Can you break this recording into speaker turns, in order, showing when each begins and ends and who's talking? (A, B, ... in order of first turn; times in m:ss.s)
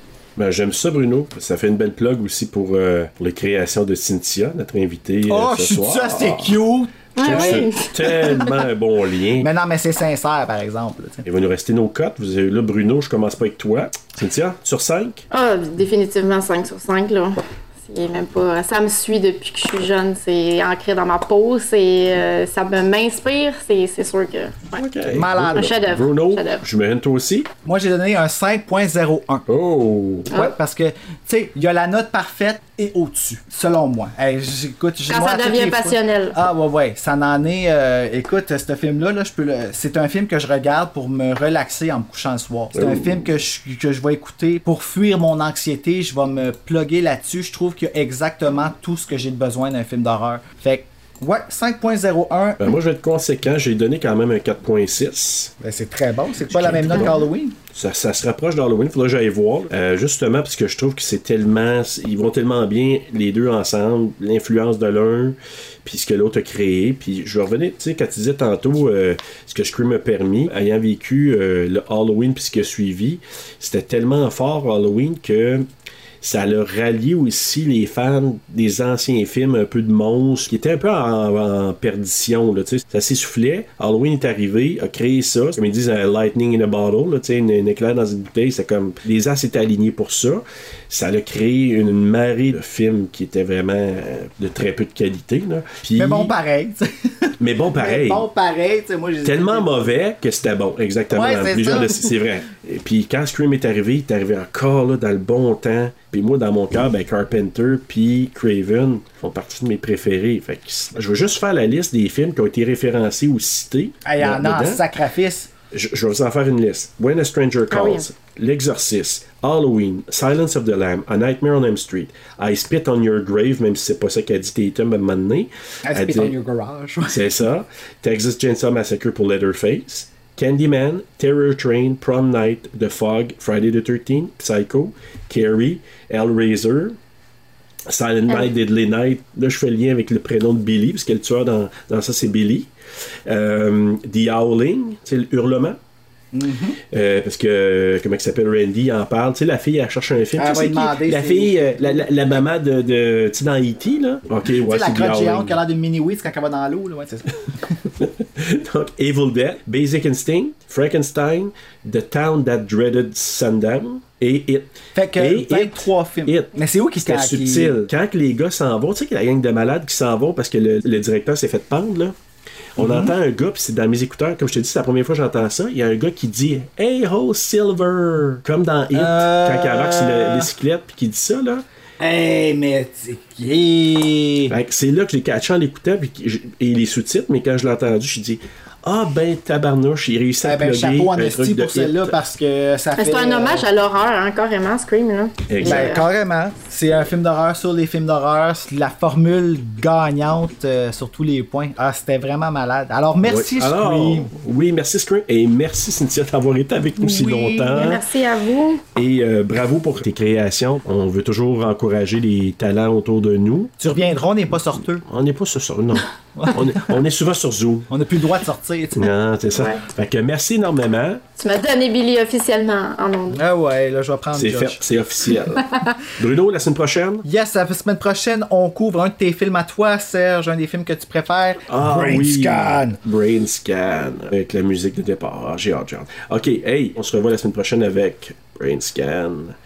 0:00.4-0:06.6 A
0:05.2-0:07.7 B
0:07.2-0:07.9 C
0:07.2-0:09.5 A
0:09.4-0:11.2 B
0:11.2-0:15.2 A
0:15.3-0:24.8 C
0:24.8-0:27.5 A
0:25.1-0:25.8 B
0:25.5-0:26.6 C
0:27.6-0:29.5 B
0:29.5-0:30.3 A
0:30.3-0:52.6 B
0:35.1-0:36.4 C
0:42.7-0:43.3 A
0:52.6-0:55.5 A
0:55.6-0:57.6 B
0:56.5-0:57.1 A
0:57.7-1:15.7 A
1:16.2-1:36.3 A
1:36.0-1:39.9 B
1:37.4-1:38.3 A
1:39.2-1:54.8 A
1:41.1-1:42.1 B
1:54.0-1:55.5 B
1:55.7-2:06.3 A
1:57.7-1:58.0 C
2:05.8-2:07.2 B
2:07.1-2:17.0 A
2:17.9-2:22.7 A
2:23.3-2:25.8 A
2:26.3-2:26.8 B
2:26.9-2:35.6 A
2:30.4-2:32.1 B
2:34.7-2:37.4 B
2:38.0-2:46.5 A
2:45.0-2:47.9 B
2:47.0-2:52.1 A
2:52.8-3:01.6 A
2:52.8-2:53.1 B
2:58.9-3:00.5 B
3:02.0-3:04.5 B
3:04.5-3:12.2 A
3:10.4-3:13.7 B
3:13.0-3:16.0 C
3:15.5-3:15.9 A
3:15.6-3:24.3 B
3:23.3-3:28.0 A
3:27.0-3:27.9 B
3:27.7-3:28.8 C
3:29.0-3:33.7 A
3:33.8-3:35.0 B
3:35.1-3:37.9 A
3:36.4-3:36.8 B
3:37.9-3:39.1 B
3:39.0-3:41.2 A
3:39.5-3:39.8 C
3:41.4-3:43.4 C
3:43.3-3:44.8 B
3:44.3-3:47.2 A
3:47.2-3:53.0 B
3:51.7-3:59.6 A